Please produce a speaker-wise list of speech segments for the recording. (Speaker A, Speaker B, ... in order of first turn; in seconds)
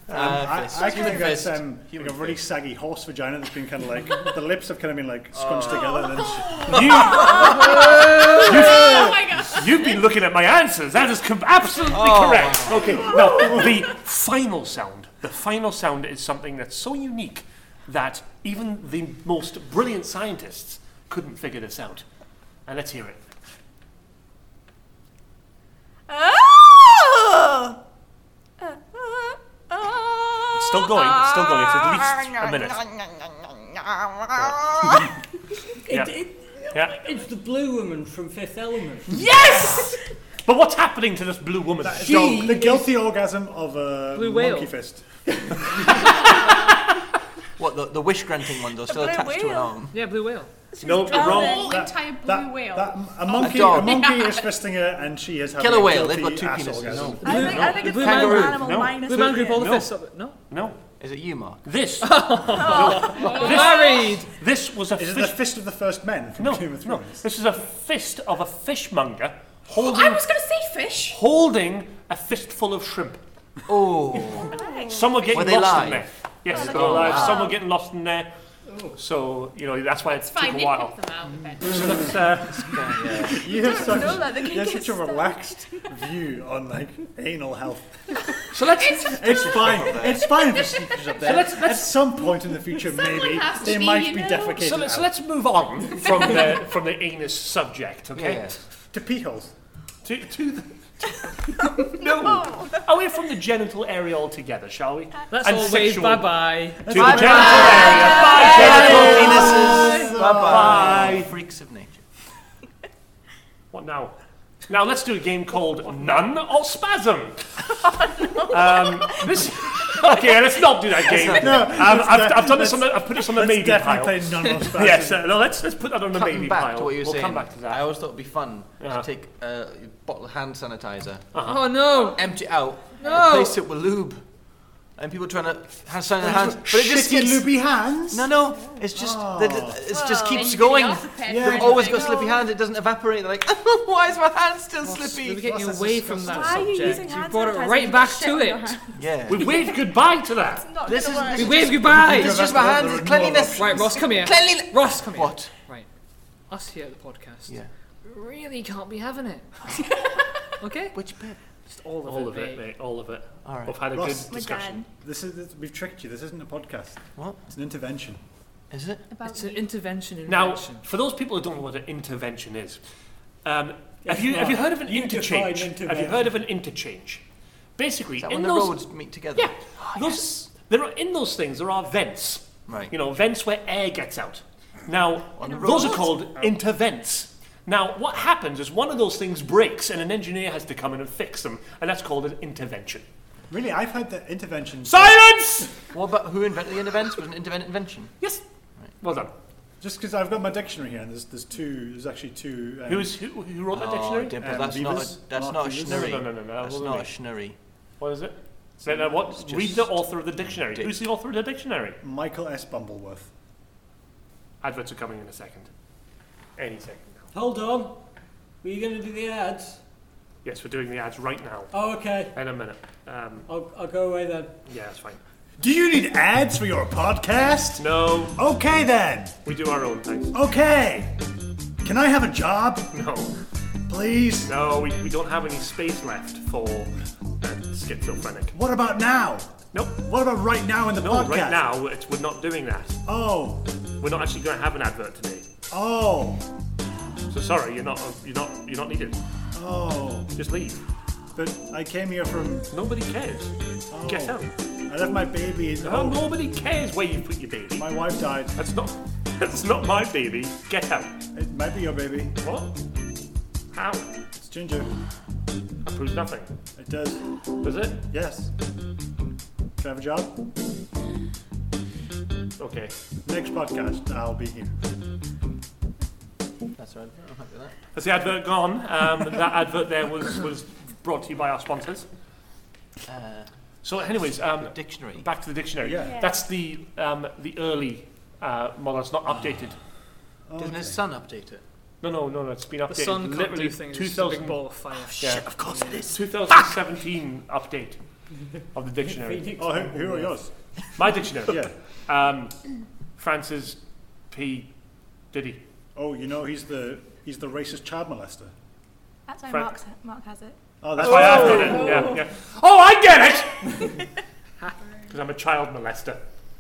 Speaker A: 0.1-2.4, 5.3-6.1, 6.7-9.2, 11.9-13.1, 47.6-49.9, 53.4-54.1, 55.6-57.4, 57.9-58.5, 61.0-61.6, 73.7-74.5, 75.3-77.5, 82.5-83.4, 89.5-90.3, 98.2-98.6, 106.9-112.0, 121.1-121.9, 126.1-131.3, 132.2-134.2, 135.0-137.5, 138.1-145.5, 149.0-149.6, 150.9-155.5, 160.9-161.4, 163.4-163.8, 168.7-169.1, 178.2-180.3, 182.7-182.9, 185.4-186.5, 195.9-198.1, 203.7-207.6, 209.3-210.9, 276.8-277.8, 283.1-283.5, 284.1-285.3, 290.6-291.6, 295.0-296.7
Speaker B: 0.1-7.0, 12.8-13.7, 41.8-45.1, 51.5-57.4, 65.0-67.2, 83.3-88.0, 89.0-95.1, 98.9-99.5, 107.0-111.1, 121.1-125.2, 136.2-138.3, 138.9-139.8, 141.2-142.3, 145.2-147.1, 151.8-154.0, 163.9-168.2, 175.9-176.2, 193.5-195.2, 199.8-203.1, 204.4-206.2, 212.0-213.3, 225.6-229.3, 230.3-231.2, 231.8-232.9, 233.9-234.5, 238.5-241.6, 243.1-243.7, 245.7-246.5, 249.5-250.3, 251.3-252.7, 253.9-256.2, 257.8-258.6, 261.3-262.4, 264.4-264.9, 266.8-267.2, 268.0-268.5, 269.8-270.3, 273.2-274.8, 285.8-286.2, 290.5-291.0, 299.6-300.5, 301.4-301.7, 306.0-308.5, 310.8-312.2
Speaker C: 6.1-10.0, 51.1-54.5, 69.7-71.2, 74.5-74.9, 80.2-82.1, 88.8-89.7, 90.3-91.3, 92.8-94.6, 140.3-142.4, 169.1-169.7, 286.1-286.4, 311.6-312.1
Speaker D: 6.7-22.1, 22.7-23.2, 30.6-32.8, 35.9-36.1, 36.7-37.0, 39.1-42.6, 50.8-51.7, 57.3-59.9, 60.5-60.8, 61.6-65.4, 66.4-70.2, 71.1-73.2, 74.9-78.3, 79.0-80.9, 81.6-83.2, 88.5-89.7, 91.2-92.1, 94.6-98.5, 100.0-111.3, 113.7-114.1, 114.7-127.9, 128.8-129.1, 131.3-131.7, 149.3-150.7, 161.7-164.8, 170.3-172.8, 173.4-177.2, 177.8-178.8, 179.3-193.1, 194.8-195.7, 199.0-199.3, 202.9-204.4, 205.8-207.1, 208.0-212.0, 214.6-215.7, 216.6-217.2, 220.4-223.5, 224.7-225.2, 227.8-228.4, 229.4-230.3, 232.9-233.3, 234.4-238.6, 239.7-240.0, 241.0-243.0, 244.0-245.5, 247.3-249.2, 250.4-250.8, 252.7-253.5, 254.1-254.5, 255.8-257.9, 258.6-261.2, 262.4-262.7, 263.7-264.1, 265.9-266.5, 267.6-268.0, 272.6-272.9, 277.9-282.1, 283.8-289.8, 292.0-294.6, 295.2-295.4, 296.1-298.0, 298.7-299.5, 301.0-302.6, 303.2-303.8, 304.3-304.7, 305.3-305.6, 311.0-313.9, 315.1-316.2
Speaker E: 7.2-8.2, 26.1-27.8, 28.6-35.1, 35.9-36.9, 39.2-40.0, 48.8-49.9, 50.7-51.8, 57.2-59.7, 62.6-64.2, 74.5-75.2, 76.5-77.6, 83.5-85.4, 102.2-102.6, 107.4-109.4, 131.9-132.2, 139.9-140.6, 146.2-148.9, 149.4-149.7, 150.6-151.7, 164.3-164.9, 309.3-310.6
Speaker F: 35.9-36.4, 36.9-39.3, 42.0-43.0, 45.3-46.2, 78.7-79.0, 174.0-176.2, 217.3-218.0, 218.6-219.8, 221.7-222.3, 223.5-224.6, 299.0-300.4
Speaker G: 44.1-44.7, 49.9-50.5, 57.2-60.4, 62.0-64.3, 105.3-107.3, 131.4-132.3, 133.0-133.6, 144.8-148.8, 151.3-152.5, 153.6-155.9, 156.5-159.7, 160.6-161.0, 161.8-162.6, 169.2-170.8, 292.9-296.1